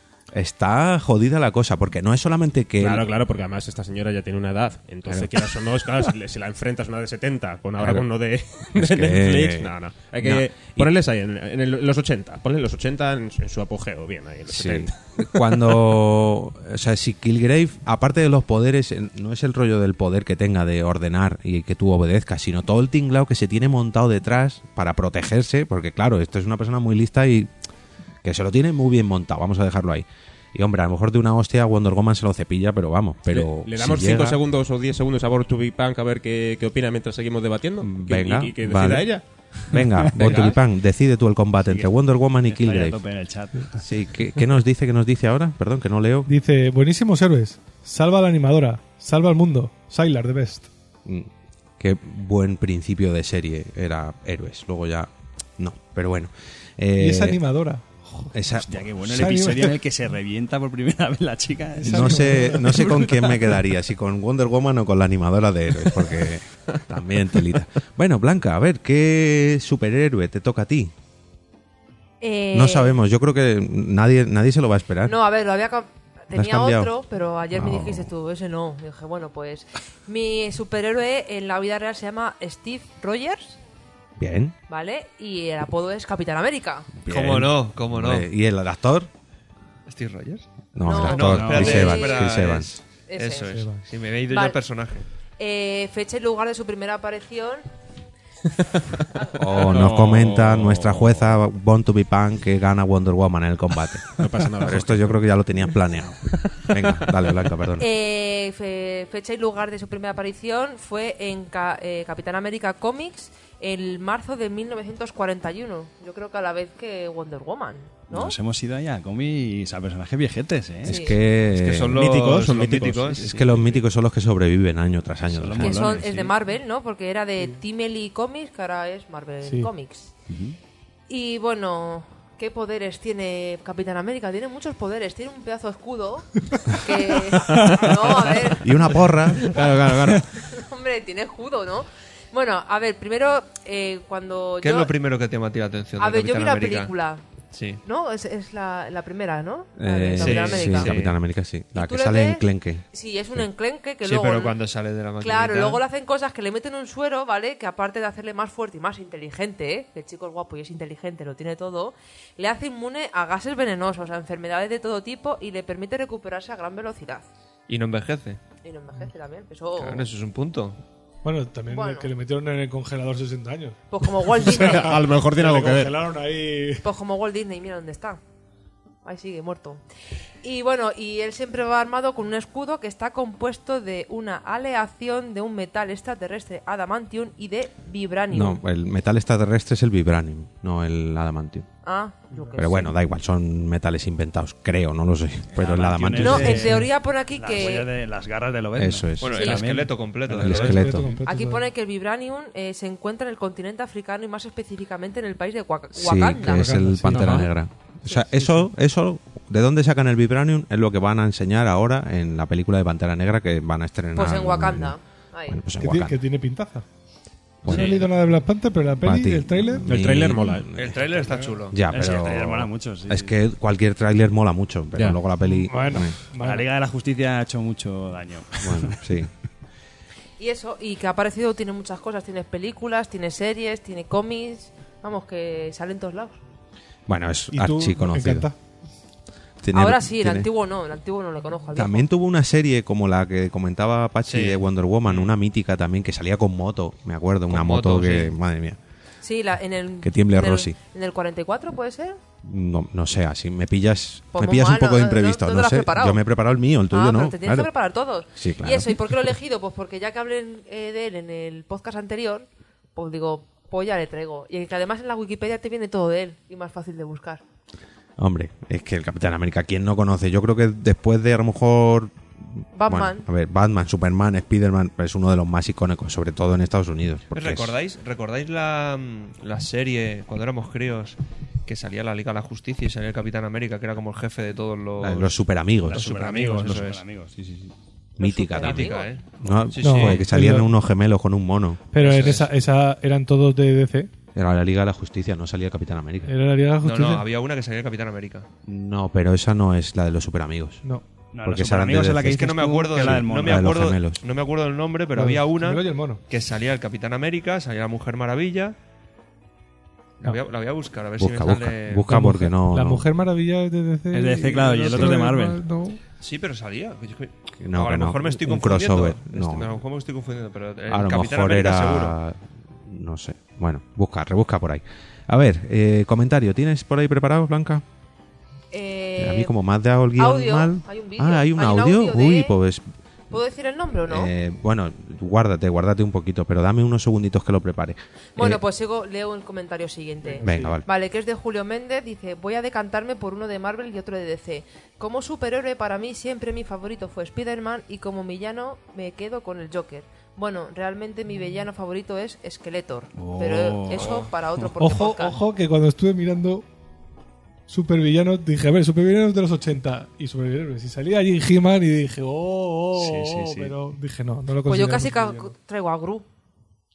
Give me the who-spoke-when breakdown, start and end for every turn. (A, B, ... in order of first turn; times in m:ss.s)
0:00.3-0:03.1 A
0:02.8-0:15.0 B
0:05.1-0:05.4 A
0:07.8-0:08.1 A
0:08.7-0:10.9 A
0:14.5-0:27.5 A
0:28.2-0:34.4 A
0:33.3-0:39.2 B
0:37.8-0:43.0 A
0:39.7-0:40.6 C
0:40.2-0:40.6 B
0:41.6-0:41.9 C
0:42.4-0:43.8 C
0:43.8-0:46.3 A
0:46.2-0:50.7 D
0:51.0-0:57.4 A
0:57.0-0:58.3 D
0:58.3-0:58.9 A
0:58.6-1:03.6 C
0:59.0-0:59.8 D
1:01.8-1:02.9 D
1:01.8-1:10.9 A
1:12.2-1:13.0 E
1:12.5-1:15.2 A
1:15.0-1:23.6 E
1:16.3-1:16.9 A
1:17.5-1:18.1 A
1:24.2-1:24.5 A
1:24.7-1:26.9 E
1:27.0-1:29.1 A
1:27.1-1:28.2 F
1:29.9-1:35.0 F
1:30.7-1:32.7 A
1:30.8-1:32.3 E
1:31.4-1:31.9 C
1:33.1-1:33.6 E
1:33.5-1:33.8 D
1:34.3-1:34.6 E
1:35.4-1:37.6 E
1:39.4-1:47.9 A
1:39.6-1:41.2 B
1:44.2-1:45.1 B
1:47.8-1:58.4 E
1:58.1-2:01.0 C
2:00.8-2:02.0 A
2:00.8-2:01.2 E
2:01.5-2:03.4 F
2:01.8-2:03.5 B
2:03.0-2:06.0 A
2:05.3-2:06.3 C
2:05.6-2:10.1 E
2:09.4-2:09.7 D
2:10.3-2:10.6 C
2:11.1-2:18.7 E
2:18.6-2:19.6 A
2:19.5-2:20.2 B
2:20.4-2:24.9 E
2:24.6-2:26.9 F
2:26.0-2:27.2 E
2:27.5-2:27.8 F
2:27.8-2:30.9 E
2:29.8-2:33.4 A
2:30.2-2:31.1 F
2:31.7-2:34.6 E
2:34.0-2:35.8 F
2:35.2-2:47.2 E
2:47.7-2:48.4 F
2:48.6-2:50.0 E
2:49.8-2:50.8 F
2:51.2-2:56.8 D
2:51.7-2:52.1 E
2:53.9-2:54.9 E
2:54.5-2:56.0 B
2:56.8-2:58.2 E
2:59.0-2:59.8 E
3:00.4-3:08.6 E
3:08.3-3:11.7 A
3:11.8-3:12.9 E
3:12.6-3:16.8 A
3:15.5-3:20.8 C
3:16.2-3:17.9 E
3:18.8-3:19.4 A
3:19.2-3:20.8 F
3:19.3-3:19.6 E
3:20.4-3:21.0 A
3:20.4-3:21.6 D
3:21.2-3:26.7 E
3:25.9-3:34.9 A
3:26.4-3:27.5 D
3:28.1-3:28.7 D
3:34.1-3:35.6 E
3:35.5-3:36.2 A
3:35.8-3:36.8 D
3:37.6-3:38.0 A
3:37.6-3:40.0 D
3:39.0-3:46.2 A
3:39.8-3:40.7 B
3:40.7-3:42.2 F
3:41.9-3:43.3 C
3:45.4-3:46.7 D
3:46.3-3:49.0 C
3:48.6-3:49.3 A
3:50.4-3:56.4 E
3:57.1-3:58.5 A
3:57.5-3:58.6 D
3:59.6-4:00.5 A
3:59.7-4:02.0 E
4:01.7-4:08.8 A
4:04.3-4:05.3 F
4:07.5-4:08.3 F
4:09.2-4:12.2 E
4:10.0-4:10.8 A
4:12.4-4:17.7 A
4:14.3-4:16.2 E
4:16.9-4:27.4 E
4:18.3-4:19.0 A
4:28.2-4:37.7 A
4:32.8-4:33.2 E
4:37.3-4:45.4 F
4:45.0-4:46.1 A
4:45.8-4:47.7 C
4:45.9-4:47.0 F
4:48.2-4:51.8 A
4:48.2-4:49.1 E
4:48.6-4:50.2 F
4:49.8-4:50.7 D
4:51.9-4:54.1 D
4:52.0-4:52.5 F
4:54.3-4:56.3 A
4:56.2-4:57.2 D
4:56.8-4:58.5 F
4:58.6-5:00.8 A
5:01.3-5:03.7 C
5:01.4-5:04.2 A
5:02.2-5:08.8 F
5:05.1-5:06.2 D
5:10.2-5:12.1 F
5:11.2-5:13.0 A
5:12.1-5:16.0 D
5:14.1-5:15.6 C
5:16.2-5:22.2 F
5:17.6-5:19.8 A
5:20.9-5:27.8 A
5:28.7-5:29.5 E
5:29.2-5:32.8 A
5:30.2-5:32.6 E
5:33.3-5:34.3 E
5:34.1-5:38.6 A
5:38.4-5:55.4 E
5:40.3-5:40.7 D
5:40.4-5:40.8 A
5:53.1-5:54.7 C
5:54.8-5:56.6 D
5:57.7-6:05.5 D
6:02.9-6:03.7 C
6:04.6-6:06.2 E